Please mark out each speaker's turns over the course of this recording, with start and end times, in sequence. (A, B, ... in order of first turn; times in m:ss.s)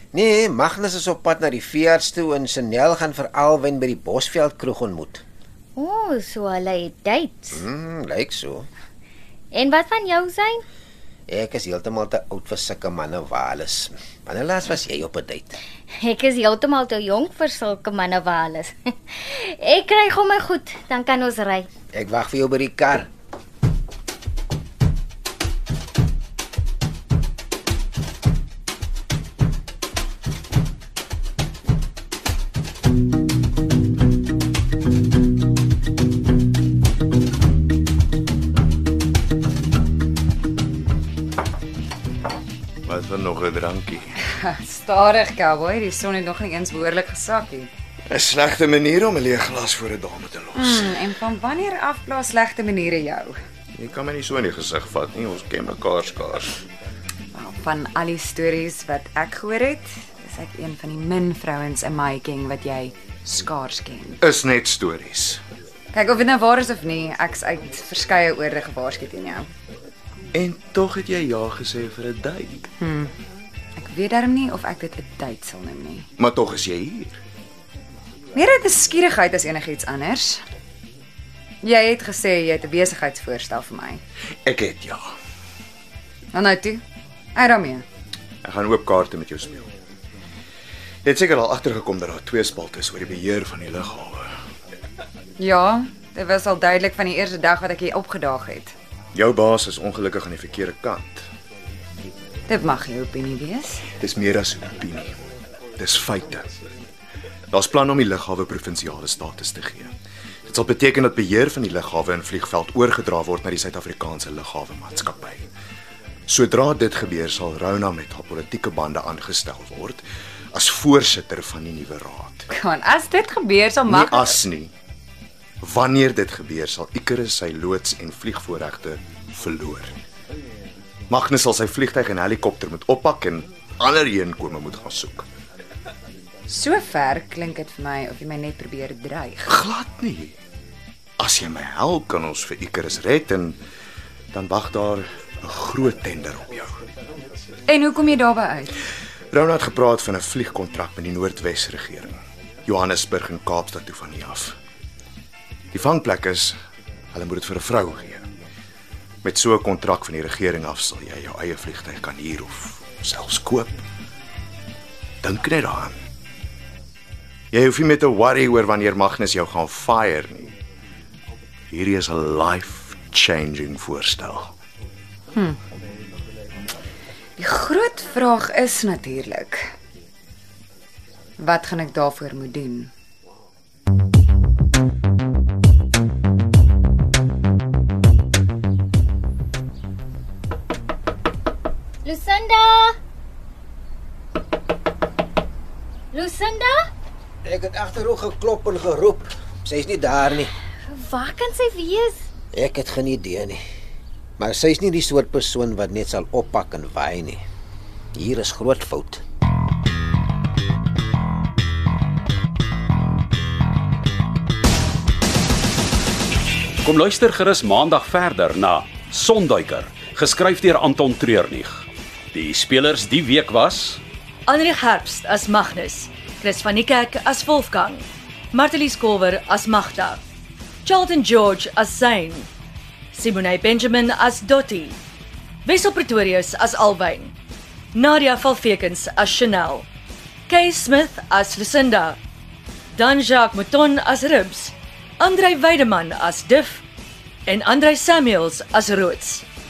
0:00.1-0:05.2 A
0:05.8-0:07.6 B
0:07.5-0:08.7 A
0:09.5-0:10.6 B
0:11.3-0:15.6 A
0:16.0-0:21.7 B
0:21.9-0:23.1 A
0:42.8-0:44.2 C
0:44.4-0:47.7 D
0:48.1-0:51.0 C
0:50.5-0:53.4 D
0:53.7-0:56.6 C
0:57.3-1:04.2 D
1:04.2-1:05.4 C
1:05.9-1:09.5 D
1:10.3-1:12.7 C
1:12.8-1:13.1 D
1:13.8-1:16.1 D
1:16.2-1:17.2 C
1:18.3-1:20.4 D
1:21.6-1:24.0 D
1:24.4-1:25.0 C
1:26.3-1:26.8 D
1:27.3-1:27.8 D
1:28.4-1:29.7 C
1:31.0-1:34.3 C
1:35.4-1:38.7 D
1:39.1-1:41.2 C
1:42.5-1:43.8 D
1:44.0-1:45.1 C
1:45.8-1:46.4 C
1:47.5-1:49.9 C
1:50.5-1:55.5 C
1:56.3-2:00.0 C
2:00.5-2:02.5 C
2:02.5-2:04.4 D
2:03.9-2:04.7 C
2:05.6-2:09.9 C
2:11.1-2:15.3 C
2:16.5-2:19.5 D
2:19.5-2:20.4 C
2:21.2-2:23.6 C
2:24.3-2:26.8 C
2:27.7-2:28.7 D
2:29.3-2:34.6 C
2:35.7-2:36.6 C
2:37.1-2:38.2 C
2:39.2-2:43.8 C
2:45.2-2:46.0 C
2:47.5-2:50.6 C
2:51.7-2:54.5 C
2:57.4-2:59.6 D
3:01.4-3:02.9 D
3:12.0-3:13.0 B
3:16.1-3:16.9 B
3:17.4-3:20.5 A
3:20.9-3:22.2 B
3:22.5-3:23.6 A
3:24.4-3:27.4 A
3:28.1-3:29.2 A
3:36.8-3:44.0 E
3:44.5-3:50.2 F
3:50.8-3:52.5 F
3:53.1-3:55.0 F
3:55.6-3:57.3 F
3:57.9-3:59.9 F
4:00.5-4:02.2 F
4:02.9-4:06.8 F
4:07.4-4:09.4 F